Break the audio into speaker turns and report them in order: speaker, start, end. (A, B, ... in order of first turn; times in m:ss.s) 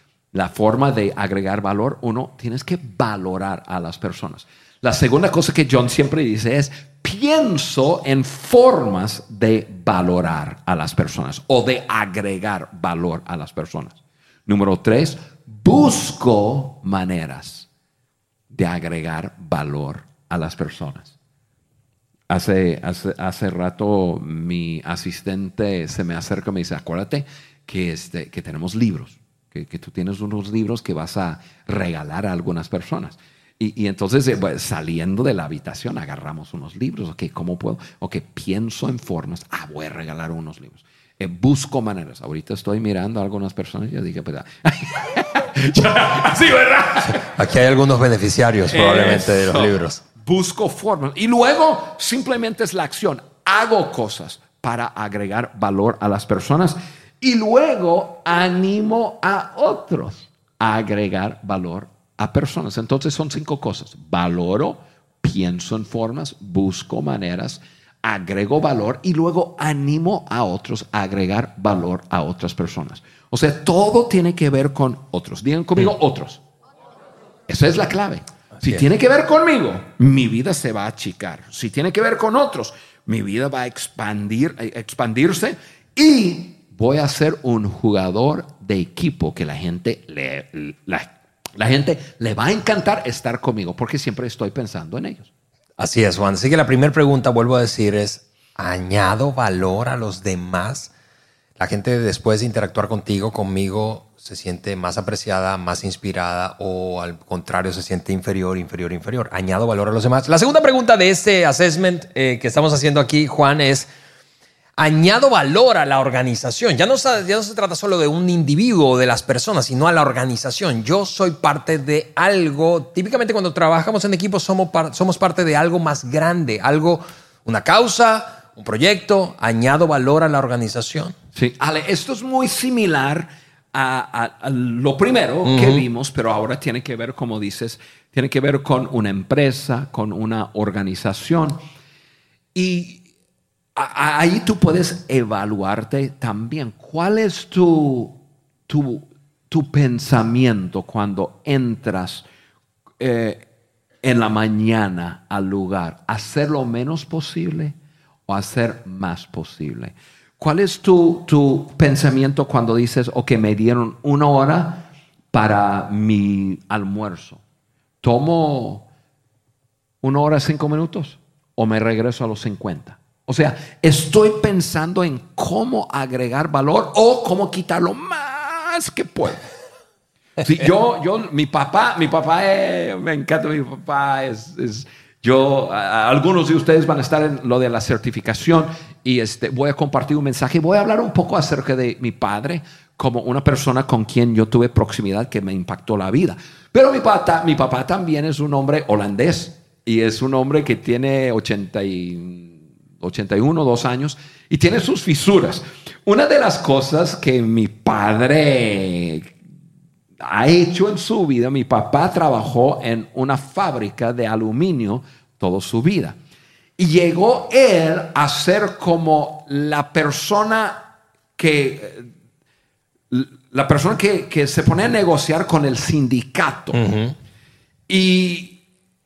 0:00.3-0:17.7 A
0:18.5-0:21.2 A
0:22.3-0:47.3 A
0:47.1-0:50.0 B
0:48.7-1:16.4 A
1:17.5-1:35.3 A
1:18.6-1:18.8 B
1:35.8-1:40.9 B
1:41.6-1:53.9 B
1:54.8-2:11.2 B
2:11.4-2:21.6 A
2:15.4-2:15.8 B
2:22.6-2:23.0 A
2:23.8-2:28.2 A
2:28.7-2:32.3 A
2:33.0-2:33.4 A
2:34.0-2:37.8 A
2:38.3-2:47.4 A
2:48.0-2:48.9 A
2:50.0-2:59.4 A
3:00.4-3:29.4 A
3:30.2-3:36.2 A
3:36.8-3:42.1 A
3:43.1-3:46.8 A
3:46.7-3:47.2 B
3:47.9-3:48.6 A